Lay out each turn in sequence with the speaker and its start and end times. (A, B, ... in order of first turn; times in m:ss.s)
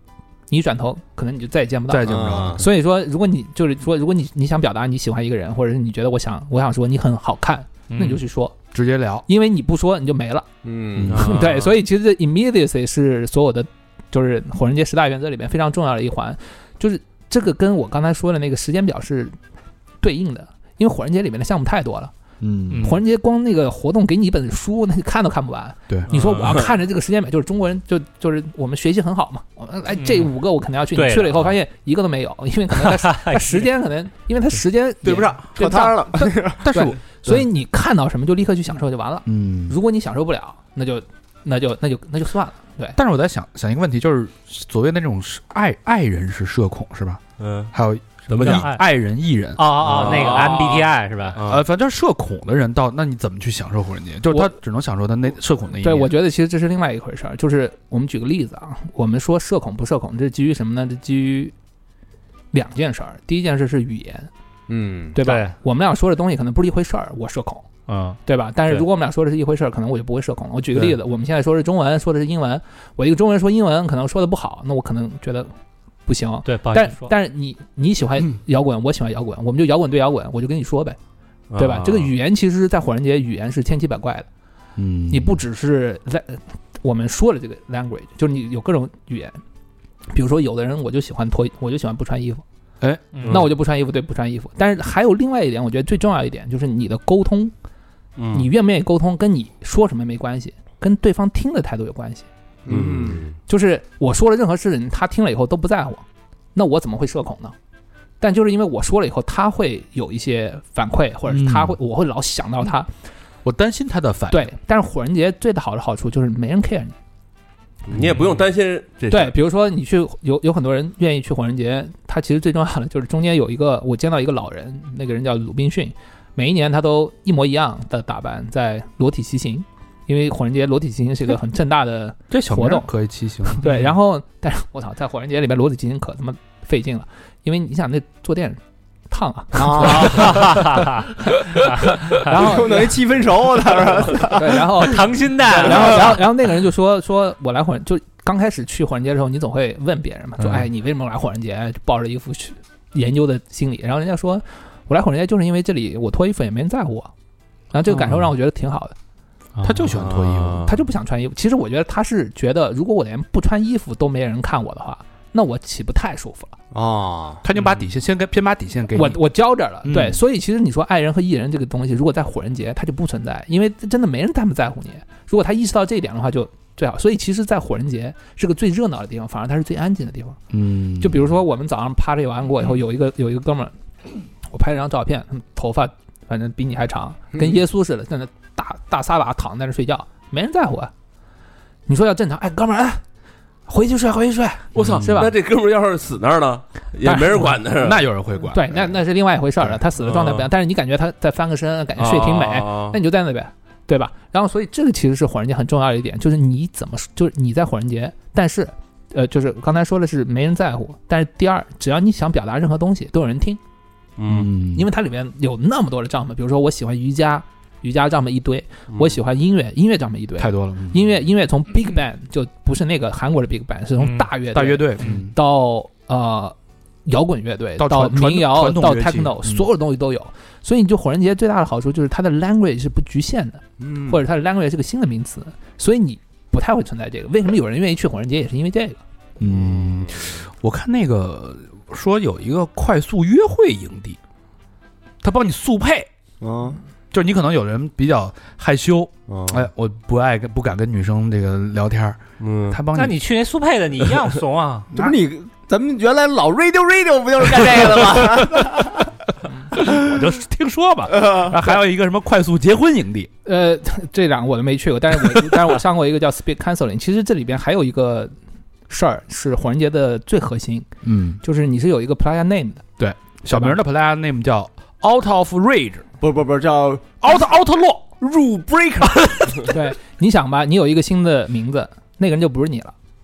0:00.5-0:08.6 A
0:01.9-0:02.7 B
0:02.1-0:02.6 C
0:07.9-0:08.2 D
0:08.7-0:09.3 B
0:09.3-0:10.5 A
0:10.6-0:11.3 C
0:11.0-0:11.3 B
0:11.1-0:11.7 E
0:11.1-0:19.4 A
0:20.0-0:22.1 A
0:22.4-0:22.9 B
0:22.7-0:23.0 D
0:22.8-0:43.0 A
0:26.1-0:26.6 D
0:30.0-0:30.3 D
0:31.0-0:31.5 D
0:32.8-0:33.6 D
0:35.0-0:36.6 C
0:36.6-0:37.5 B
0:39.3-0:39.8 B
0:43.0-0:47.2 B
0:47.4-0:47.7 E
0:47.7-0:50.4 B
0:48.3-0:48.8 D
0:49.6-0:51.4 D
0:49.8-0:51.6 E
0:51.4-0:56.1 B
0:55.8-1:01.5 A
1:02.5-1:04.3 A
1:04.7-1:05.2 C
1:05.1-1:07.7 A
1:05.2-1:05.6 D
1:07.9-1:08.8 D
1:08.3-1:15.5 A
1:16.1-1:21.0 A
1:16.4-1:17.1 D
1:21.5-1:22.1 E
1:21.6-1:24.3 A
1:24.8-1:25.4 B
1:25.1-1:29.4 A
1:30.1-1:32.4 A
1:33.1-1:33.4 D
1:33.3-1:37.5 A
1:38.2-1:38.5 E
1:38.3-1:42.3 A
1:42.7-1:43.3 C
1:42.7-1:43.3 E
1:43.5-1:47.6 A
1:48.2-1:52.9 A
1:51.3-1:51.8 B
1:53.4-1:54.5 B
1:54.3-1:57.0 A
1:57.9-1:59.3 E
1:59.1-2:12.9 A
2:12.3-2:13.6 B
2:13.5-2:23.0 A
2:13.7-2:13.9 D
2:19.6-2:20.4 C
2:20.0-2:21.1 D
2:22.1-2:24.7 C
2:24.1-2:37.1 A
2:24.8-2:26.2 D
2:37.7-2:39.0 A
2:39.6-2:39.8 D
2:39.6-2:40.7 B
2:39.9-2:40.7 E
2:40.6-2:46.6 A
2:46.7-2:47.4 C
2:47.4-2:49.2 B
2:48.9-3:00.4 A
2:49.8-2:50.2 B
3:00.5-3:01.3 B
3:01.0-3:03.7 A
3:04.5-3:10.9 A
3:11.9-3:13.0 A
3:13.7-3:15.3 A
3:14.8-3:18.1 E
3:14.8-3:15.2 B
3:17.0-3:17.6 A
3:17.8-3:18.9 B
3:18.5-3:33.6 A
3:20.0-3:20.5 E
3:22.0-3:23.0 E
3:34.2-3:34.5 E
3:34.3-3:34.9 B
3:34.7-3:59.0 A
3:40.4-3:41.1 B
3:44.5-3:45.4 B
3:47.8-3:49.7 B
3:53.8-3:54.2 C
3:59.4-4:04.2 B
4:05.2-4:06.1 B
4:06.4-4:06.8 C
4:07.1-4:13.2 B
4:09.3-4:09.6 C
4:12.4-4:12.8 E
4:12.9-4:14.9 D
4:14.9-4:19.0 C
4:18.2-4:18.6 B
4:19.7-4:23.3 B
4:23.4-4:28.3 A
4:28.9-4:30.9 A
4:31.0-4:31.4 B
4:31.4-4:32.8 A
4:33.0-4:36.1 B
4:33.5-4:33.8 A
4:36.2-4:37.2 C
4:37.2-4:38.2 B
4:38.2-4:39.7 C
4:39.7-4:42.9 A